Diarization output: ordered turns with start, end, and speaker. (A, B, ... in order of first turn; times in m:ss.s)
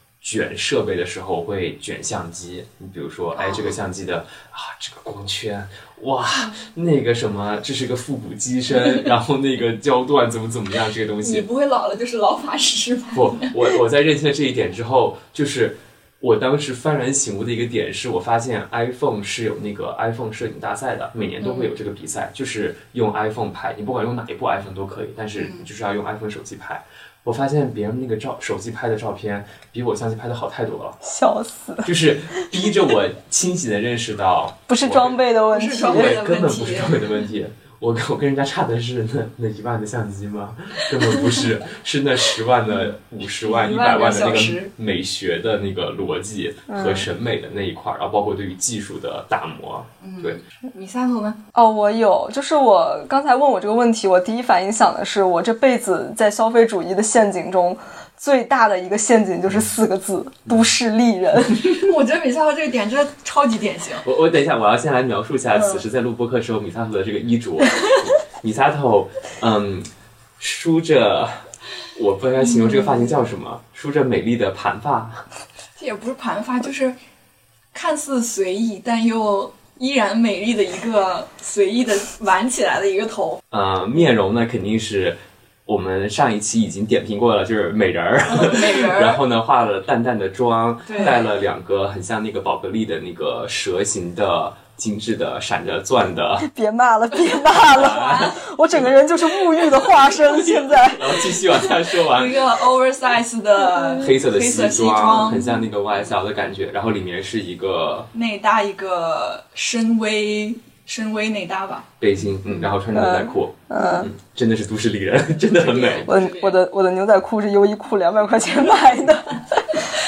0:00.2-0:11.5 A
0:03.4-0:03.8 B
0:11.2-0:13.6 B
0:13.1-0:31.0 A
0:21.4-0:21.7 B
0:25.4-0:25.7 B
0:31.0-0:32.5 C
0:31.8-0:35.2 A
0:34.7-0:36.1 C
0:35.5-0:37.1 B
0:35.9-0:50.4 A
0:42.8-0:44.7 B
0:46.7-0:47.1 C
0:50.0-0:51.4 B
0:51.5-1:01.7 C
1:01.6-1:04.1 B
1:04.0-1:09.9 A
1:05.5-1:05.8 B
1:10.4-1:11.4 A
1:11.9-1:15.2 A
1:12.4-1:13.1 B
1:15.8-1:17.0 B
1:17.7-1:23.4 B
1:23.5-1:36.5 A
1:28.3-1:29.2 B
1:30.9-1:31.2 B
1:36.4-1:41.4 C
1:37.6-1:38.9 A
1:37.8-1:38.1 B
1:40.0-1:42.5 A
1:42.0-1:45.5 B
1:43.7-1:44.0 C
1:44.0-1:48.1 A
1:48.1-1:51.9 B
1:52.0-1:56.1 A
1:52.9-1:54.1 C
1:55.5-1:56.6 B
1:56.1-1:59.6 C